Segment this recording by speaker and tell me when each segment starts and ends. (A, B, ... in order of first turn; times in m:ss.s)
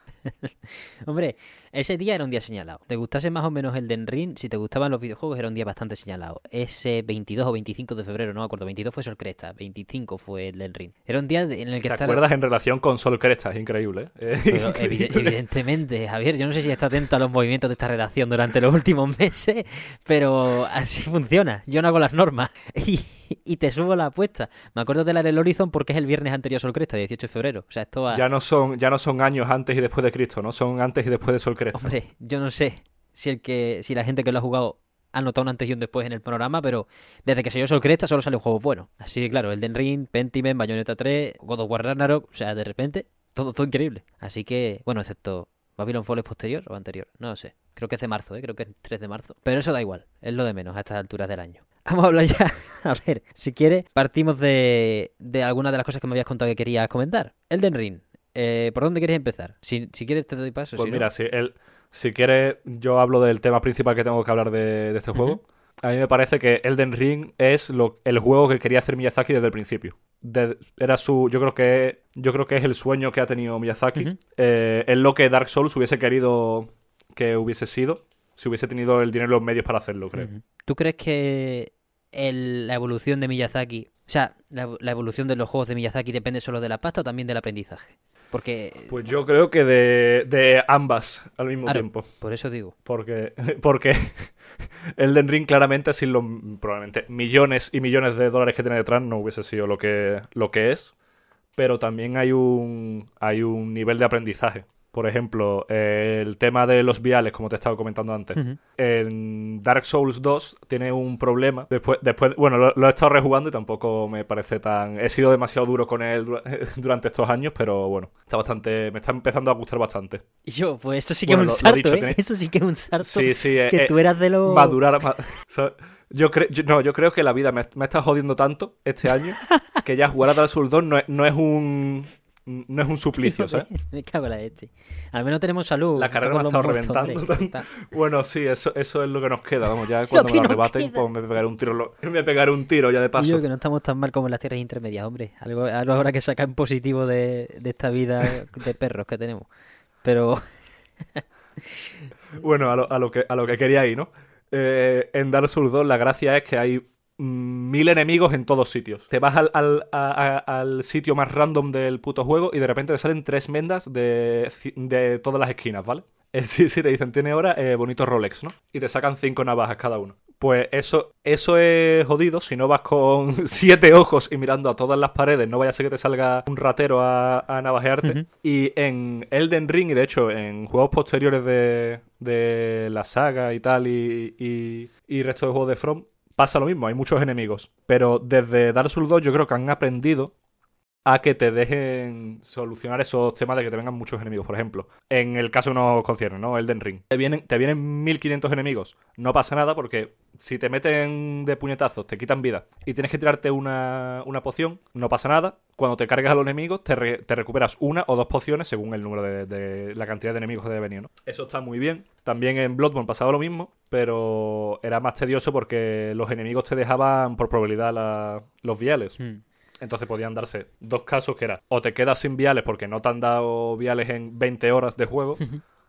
0:00.3-0:12.2 A
0:11.9-0:15.4 B
0:14.5-0:28.2 A
0:28.1-0:31.9 B
0:31.7-1:01.1 A
1:00.8-1:20.3 B
1:20.1-1:28.9 A
1:28.9-1:32.1 B
1:31.6-1:32.7 A
1:32.8-1:40.9 B
1:41.6-2:00.2 B
1:48.3-1:48.6 A
2:00.4-2:04.8 A
2:01.2-2:02.2 B
2:03.0-2:13.7 B
2:09.4-2:09.7 A
2:13.2-2:17.7 A
2:16.0-2:23.4 B
2:19.8-2:21.0 A
2:23.2-2:29.5 A
2:30.0-2:30.4 A
2:32.3-3:10.3 B
3:11.0-3:39.2 B
3:39.8-3:45.4 B